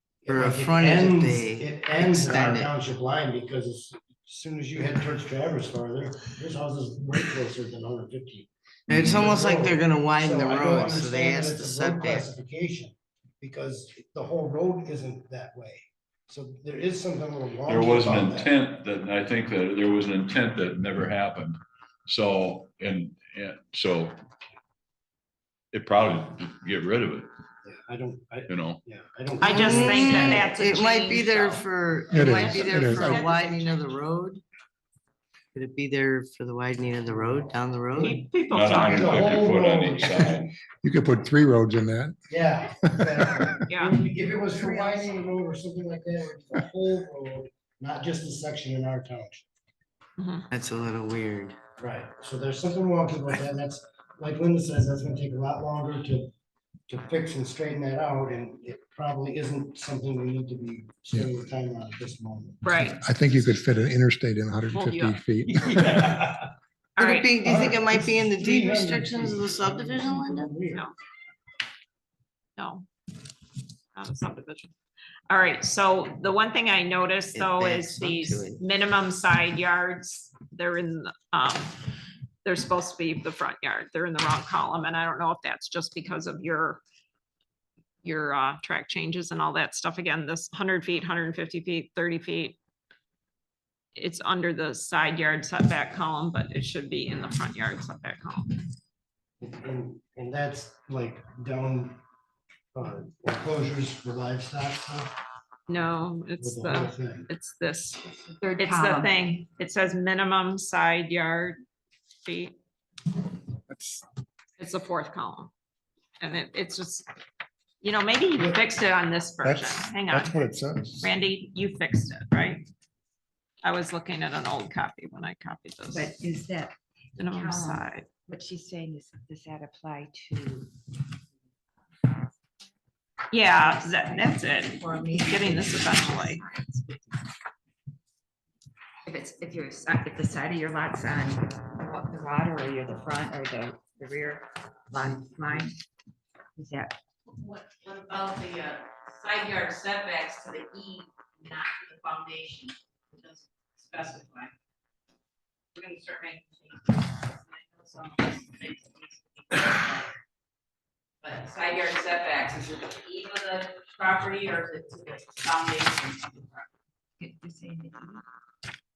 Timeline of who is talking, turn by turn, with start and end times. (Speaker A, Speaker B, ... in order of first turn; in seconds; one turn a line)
Speaker A: 0.2-18.5
Speaker B: 0.3-2.7
Speaker B: 8.9-12.3
Speaker C: 17.7-24.1
Speaker C: 25.7-27.3
Speaker A: 27.6-30.5
Speaker C: 28.5-28.8
Speaker D: 29.4-33.6
Speaker B: 29.5-34.4
Speaker E: 32.1-33.2
Speaker B: 35.5-38.2
Speaker D: 38.0-39.5
Speaker C: 38.5-40.5
Speaker A: 38.7-40.4
Speaker E: 40.8-42.3
Speaker A: 42.3-49.5
Speaker E: 42.8-43.6
Speaker D: 43.7-44.0
Speaker D: 50.2-50.4
Speaker B: 50.5-51.6
Speaker A: 51.8-56.3
Speaker A: 56.9-62.6
Speaker D: 62.6-63.0
Speaker E: 63.0-66.2
Speaker D: 64.7-65.2
Speaker A: 65.7-66.4
Speaker D: 67.0-67.3
Speaker B: 67.0-70.6
Speaker A: 67.4-70.8
Speaker D: 72.6-72.9
Speaker D: 74.0-74.7
Speaker D: 75.3-81.8
Speaker B: 77.3-78.6
Speaker D: 82.5-86.8
Speaker D: 88.0-92.6
Speaker D: 94.0-98.6
Speaker A: 99.4-102.0
Speaker A: 102.7-105.1
Speaker D: 105.7-108.0
Speaker A: 106.4-107.3
Speaker F: 108.4-109.0
Speaker D: 108.6-111.6
Speaker D: 112.2-112.5
Speaker E: 113.7-114.0
Speaker D: 114.6-115.5
Speaker D: 116.2-117.1
Speaker D: 117.8-120.4
Speaker E: 119.4-121.1
Speaker D: 121.0-122.6
Speaker D: 123.6-126.2
Speaker F: 126.0-126.7
Speaker D: 127.2-128.1
Speaker F: 127.2-130.7
Speaker D: 133.3-136.4
Speaker F: 133.7-137.1
Speaker F: 139.1-145.7
Speaker F: 146.6-146.9
Speaker G: 147.4-154.5
Speaker G: 155.8-160.1
Speaker G: 161.2-166.7
Speaker F: 167.2-168.2